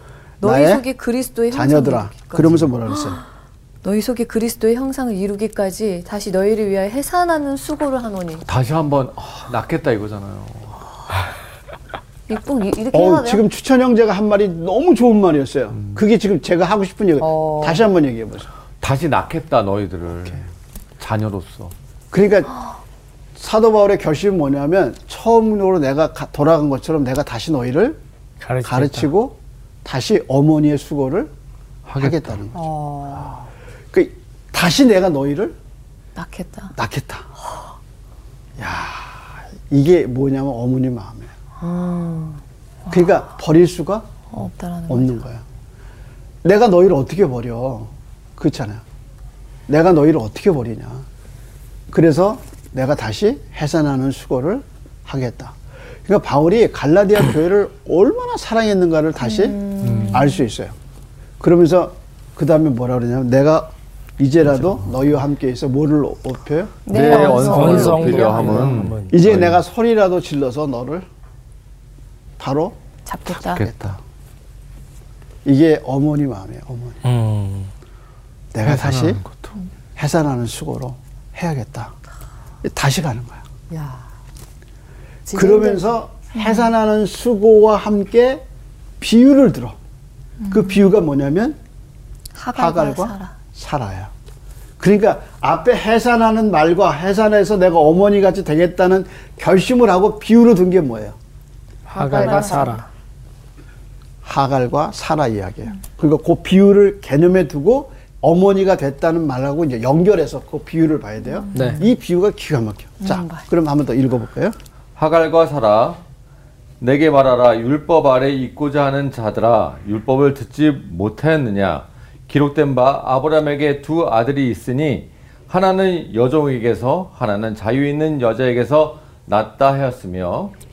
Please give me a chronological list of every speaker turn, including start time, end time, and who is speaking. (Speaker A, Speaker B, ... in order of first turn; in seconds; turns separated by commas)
Speaker A: 0.4-3.2, Speaker B: 0.4-0.8, Speaker B: 1.5-3.2, Speaker A: 3.8-8.4, Speaker C: 8.4-10.8, Speaker A: 12.3-13.4, Speaker B: 12.9-18.5, Speaker D: 17.2-17.8, Speaker C: 18.8-20.4, Speaker C: 21.0-21.7, Speaker B: 22.1-22.5, Speaker B: 23.4-28.0, Speaker E: 28.4-29.1, Speaker B: 28.6-31.3, Speaker C: 31.9-32.4, Speaker B: 32.0-32.7, Speaker D: 32.5-33.4, Speaker B: 33.9-35.5, Speaker A: 36.1-36.7, Speaker B: 36.7-37.3, Speaker B: 38.6-41.3, Speaker A: 41.6-43.1, Speaker B: 42.9-44.1, Speaker A: 44.3-45.2, Speaker B: 44.9-45.4, Speaker B: 46.4-48.8, Speaker B: 49.7-51.0, Speaker B: 51.9-60.7, Speaker A: 59.2-60.4, Speaker C: 59.8-60.2, Speaker B: 61.4-67.9, Speaker A: 66.8-68.6, Speaker C: 66.9-69.6, Speaker E: 67.2-69.2, Speaker B: 69.1-71.0, Speaker B: 72.4-72.8, Speaker A: 73.0-73.7, Speaker C: 73.4-73.9, Speaker B: 73.5-74.0, Speaker B: 75.4-77.0, Speaker E: 77.0-77.7, Speaker B: 78.5-79.2, Speaker C: 78.6-79.5, Speaker B: 80.0-81.9, Speaker B: 82.6-83.4, Speaker D: 83.7-84.0, Speaker D: 85.3-85.9, Speaker B: 85.3-88.4, Speaker B: 89.0-89.8, Speaker A: 90.4-90.8, Speaker B: 90.5-91.6, Speaker A: 92.3-93.3, Speaker B: 92.5-94.1, Speaker B: 94.8-101.2, Speaker E: 101.9-102.8, Speaker D: 102.0-102.8, Speaker A: 102.0-102.8, Speaker B: 104.2-114.5, Speaker A: 111.4-111.8, Speaker E: 111.5-111.8, Speaker A: 113.0-113.5, Speaker C: 115.0-116.0, Speaker C: 116.8-130.5